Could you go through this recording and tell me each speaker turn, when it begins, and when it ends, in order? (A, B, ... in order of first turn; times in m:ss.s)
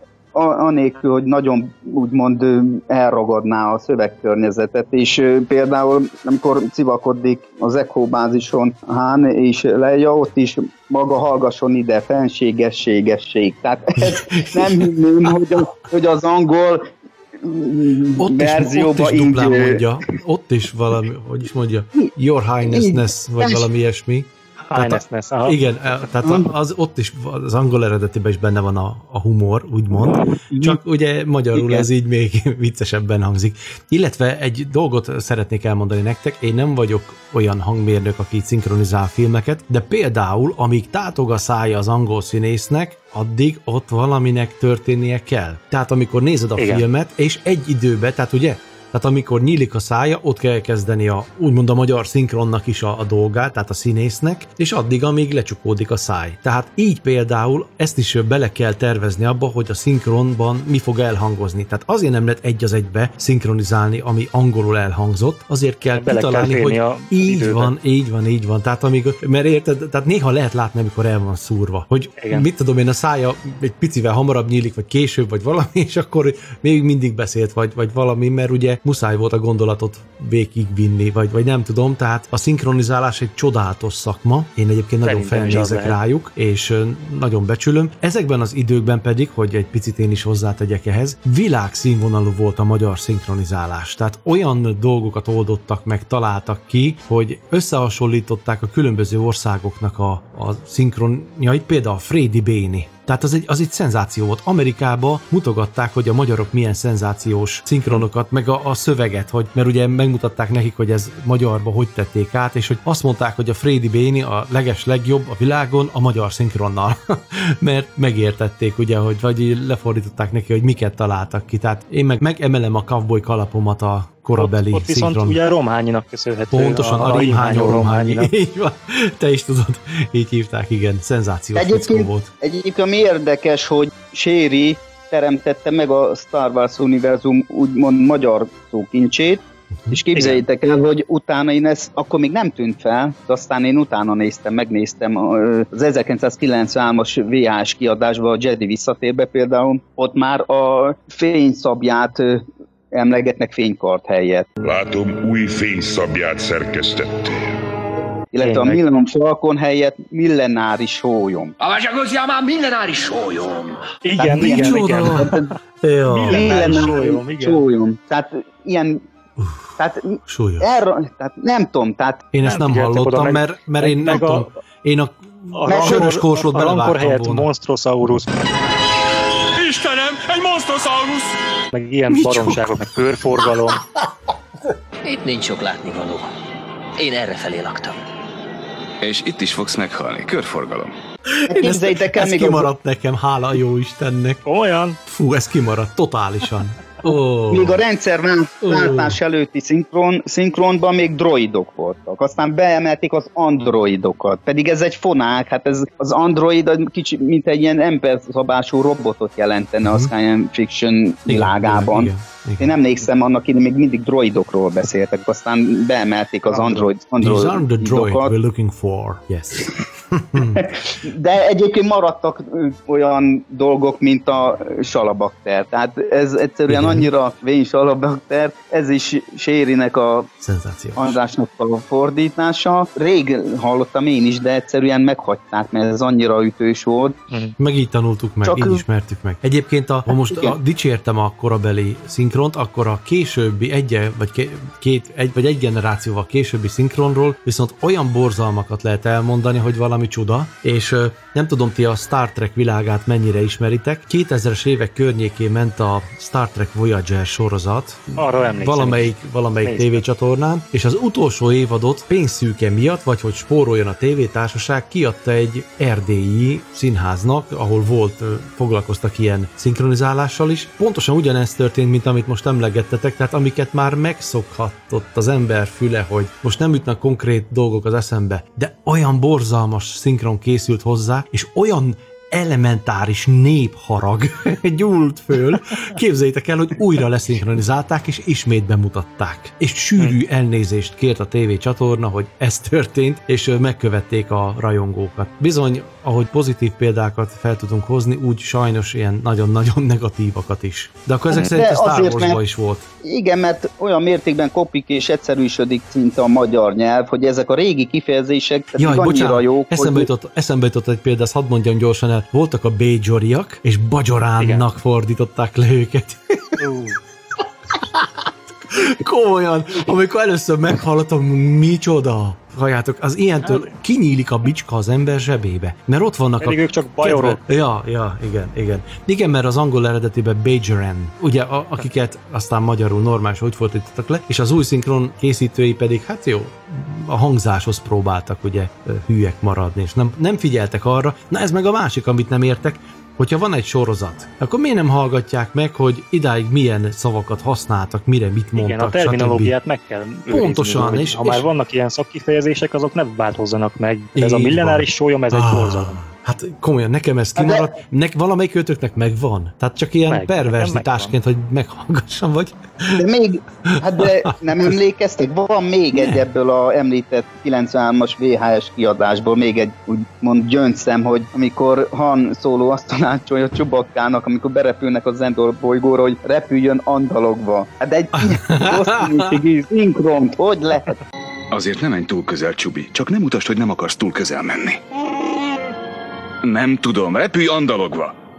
0:00.3-0:19.8 A
0:14.0-0:15.6 B
0:18.2-2:05.4 B
0:22.0-0:23.7 A
0:24.7-0:25.6 C
0:26.2-0:26.5 A
0:30.0-0:30.8 A
0:31.5-0:31.9 A
0:46.6-0:46.9 C
1:05.9-1:07.7 C
1:12.2-1:12.5 C
1:25.0-1:26.0 C
2:04.4-2:08.3 C
2:06.5-2:12.3 B
2:11.6-2:34.5 A
2:20.1-2:20.4 C
2:34.6-2:37.4 D
2:38.3-2:41.5 A
2:38.4-2:38.8 C
2:41.7-2:43.5 E
2:44.0-2:45.5 C
2:44.2-2:45.5 A
2:44.4-2:45.3 B
2:45.8-2:46.9 B
2:46.1-2:47.6 C
2:46.3-2:49.0 A
2:49.4-2:49.7 B
2:49.8-2:52.3 A
2:50.3-2:50.7 B
2:52.3-2:57.5 B
2:52.4-2:54.5 C
2:55.5-2:58.4 C
2:55.7-2:56.1 A
2:59.9-3:01.1 E
3:01.7-3:03.8 C
3:02.1-3:02.7 B
3:05.0-3:06.3 F
3:07.0-3:08.0 F
3:09.0-3:10.9 G
3:11.4-3:14.4 B
3:11.5-3:12.7 A
3:14.4-3:15.0 C
3:15.1-3:17.8 B
3:17.5-3:38.3 A
3:18.6-3:19.2 B
3:29.8-3:30.1 B
3:31.3-3:32.7 B
3:36.5-3:36.8 C
3:37.2-3:40.7 B
3:40.4-3:50.3 A
3:46.7-3:47.1 B
3:50.4-3:51.1 B
3:51.0-3:57.2 A
3:57.6-5:02.9 B
3:58.4-3:58.8 A
4:00.1-4:00.6 A
4:18.2-4:19.1 C
4:19.6-4:20.0 C
5:01.3-5:02.4 A
5:03.0-5:10.1 A
5:08.8-5:16.6 B
5:14.4-5:14.7 C
5:16.6-5:17.0 C
5:17.7-5:49.5 B
5:26.4-5:27.4 C
5:48.6-5:56.0 C
5:50.3-5:51.4 B
5:54.2-6:03.0 B
5:57.4-5:57.7 A
6:00.1-6:01.1 C
6:02.9-6:21.0 A
6:06.0-6:06.2 B
6:18.2-6:19.3 B
6:21.5-6:24.8 G
6:26.4-6:28.1 G